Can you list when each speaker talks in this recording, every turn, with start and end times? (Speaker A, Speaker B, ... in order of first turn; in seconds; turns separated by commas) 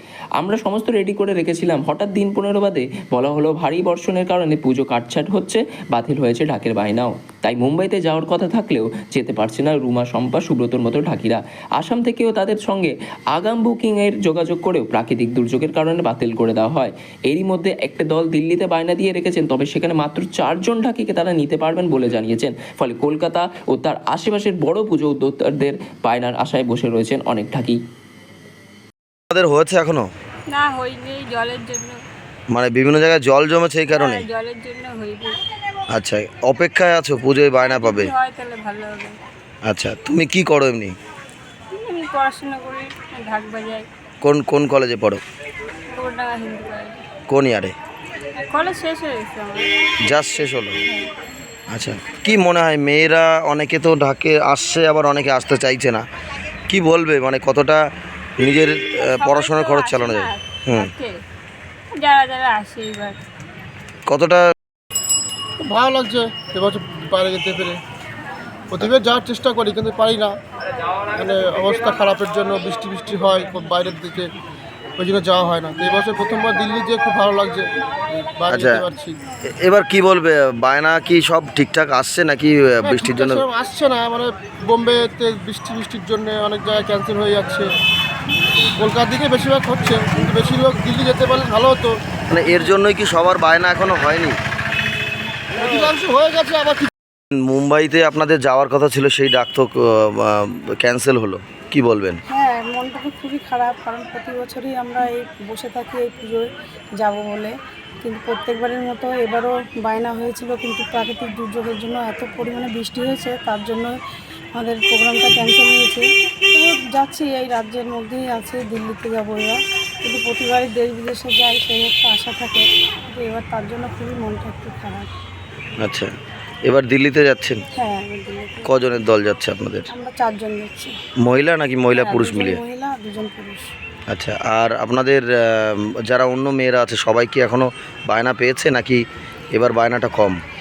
Speaker A: 0.4-27.8, Speaker B: 29.3-30.1, Speaker C: 30.5-32.0, Speaker B: 32.5-34.2, Speaker C: 33.9-35.3, Speaker B: 35.9-38.1, Speaker C: 37.7-39.2, Speaker B: 39.7-41.0, Speaker C: 41.8-43.9, Speaker B: 44.2-45.2, Speaker C: 45.9-47.0, Speaker B: 47.3-47.7, Speaker C: 48.4-49.7, Speaker B: 50.0-50.8, Speaker B: 51.7-56.0, Speaker B: 56.7-57.8, Speaker B: 58.4-60.9, Speaker C: 59.2-61.1, Speaker C: 62.0-63.2, Speaker B: 64.1-64.5, Speaker D: 65.6-67.8, Speaker D: 68.7-70.3, Speaker D: 71.2-74.3, Speaker D: 75.0-77.7, Speaker D: 78.4-79.2, Speaker B: 78.5-78.8, Speaker B: 79.6-83.4, Speaker D: 82.8-87.7, Speaker D: 88.8-92.0, Speaker B: 92.3-94.4, Speaker D: 95.5-96.9, Speaker B: 97.3-102.2, Speaker E: 102.3-114.0, Speaker E: 114.5-125.1, Speaker B: 125.8-126.1, Speaker B: 126.7-127.6, Speaker E: 127.7-129.0, Speaker B: 128.7-129.9, Speaker E: 129.9-130.9, Speaker B: 131.2-132.6, Speaker E: 131.9-133.7, Speaker B: 134.1-139.0, Speaker B: 139.5-140.4